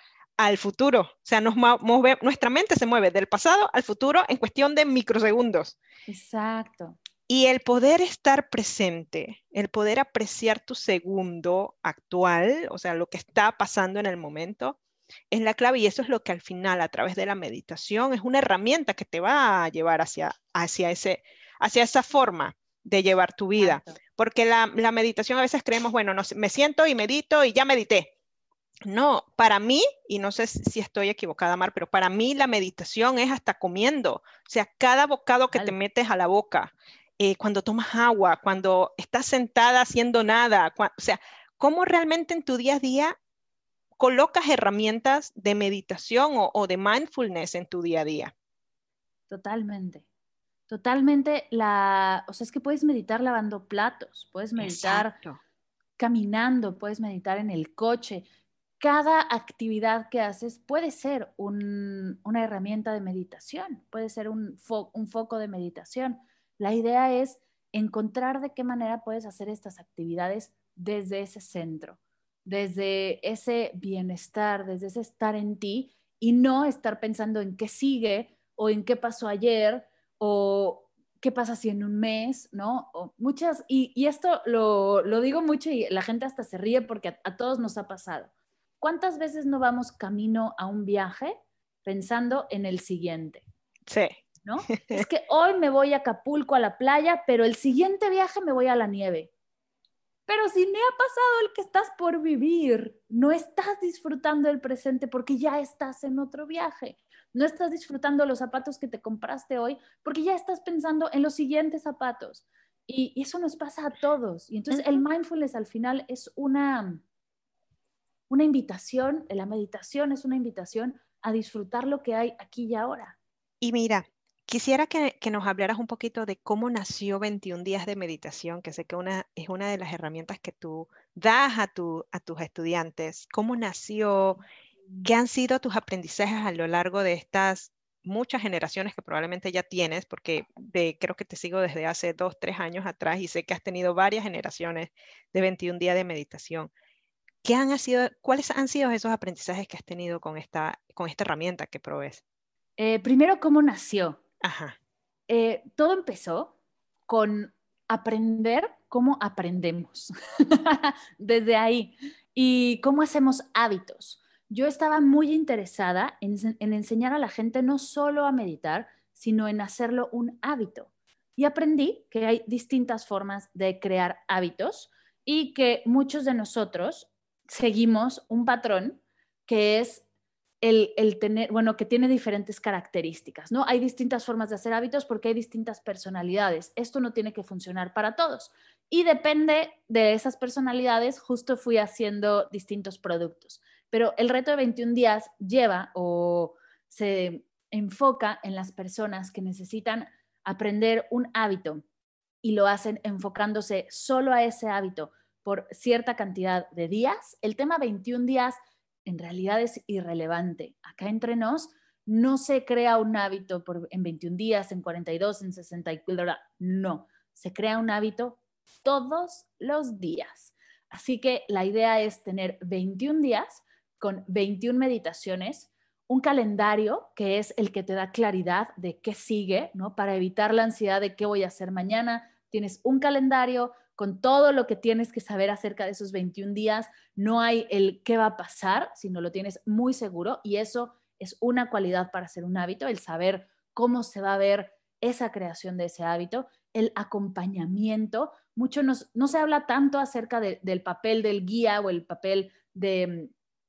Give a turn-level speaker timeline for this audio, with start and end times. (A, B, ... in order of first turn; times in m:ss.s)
0:00.4-0:05.8 A
0:06.1-0:07.0 B
0:07.3-0:14.8 A
0:15.3-0:28.1 A
0:23.6-0:24.0 B
0:28.9-0:43.2 A
0:44.0-0:48.3 A
0:49.3-0:50.1 B
0:50.7-0:55.2 B
0:54.6-0:55.4 A
0:56.0-0:58.3 B
0:58.8-1:33.4 B
1:33.9-1:35.0 A
1:34.4-1:39.3 B
1:40.3-1:57.0 B
1:54.7-1:55.0 A
1:58.3-2:03.2 B
2:03.6-2:14.4 A
2:15.0-2:26.7 A
2:27.4-2:32.2 A
2:32.8-2:34.2 B
2:34.4-2:34.8 A
2:35.3-2:36.5 B
2:37.1-3:00.0 B
3:00.6-3:21.8 B
3:22.4-4:13.3 B